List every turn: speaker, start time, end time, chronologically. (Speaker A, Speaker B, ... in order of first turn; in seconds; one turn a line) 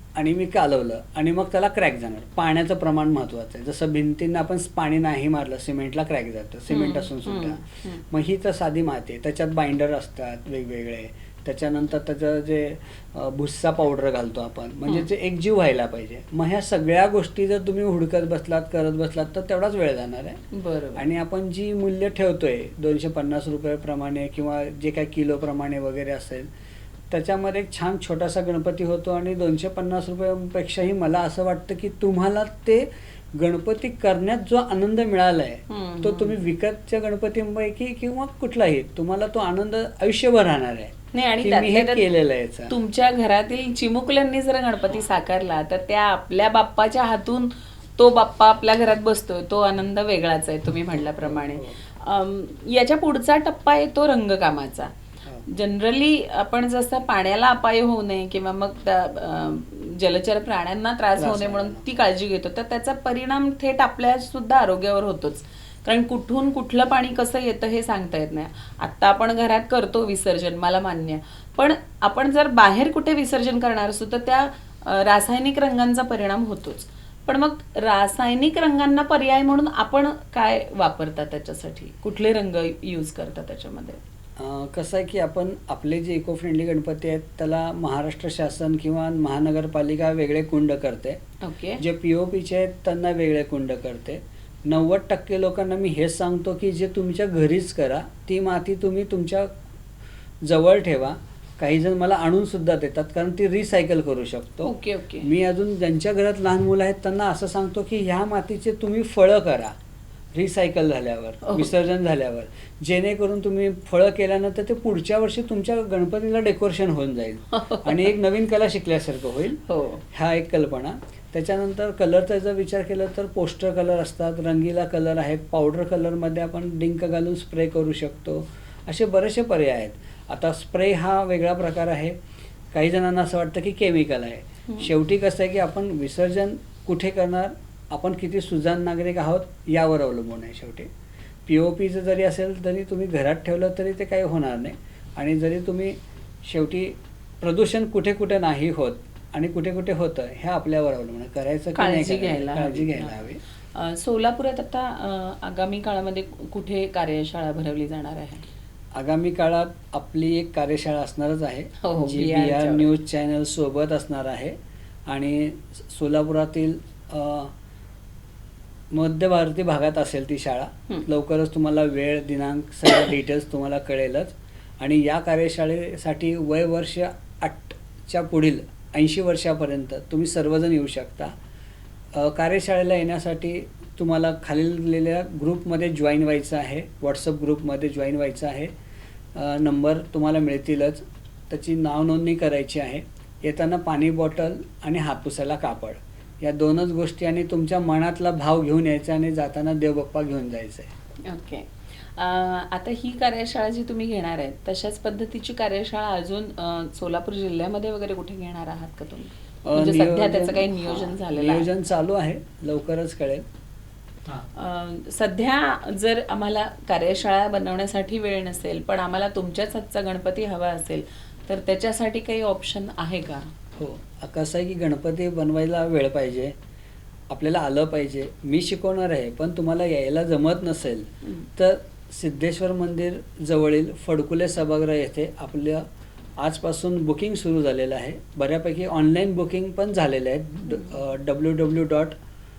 Speaker A: 0.1-20.4
Speaker B: 6.7-8.0
Speaker B: 20.5-21.0
Speaker A: 20.9-26.5
Speaker A: 27.1-42.7
Speaker B: 35.7-36.4
Speaker B: 41.1-42.0
Speaker B: 42.7-54.9
Speaker A: 51.2-51.8
Speaker B: 55.5-84.0
Speaker A: 61.2-61.9
Speaker A: 84.4-91.2
Speaker B: 91.4-91.8
Speaker A: 91.8-99.5
Speaker A: 100.4-109.7
Speaker B: 104.6-105.3
Speaker A: 110.3-132.2
Speaker B: 111.4-111.7
Speaker B: 117.5-118.1
Speaker B: 119.7-120.0
Speaker A: 132.7-140.9
Speaker A: 141.4-153.4
Speaker B: 151.8-153.1
Speaker B: 153.7-158.4
Speaker A: 158.9-164.5
Speaker B: 161.8-162.9
Speaker A: 165.1-167.5
Speaker A: 168.9-181.3
Speaker A: 182.1-188.7
Speaker A: 189.3-200.9
Speaker B: 201.2-211.7
Speaker A: 209.6-213.4
Speaker B: 214.5-223.5
Speaker A: 223.8-226.5
Speaker A: 227.3-235.8
Speaker A: 236.4-242.2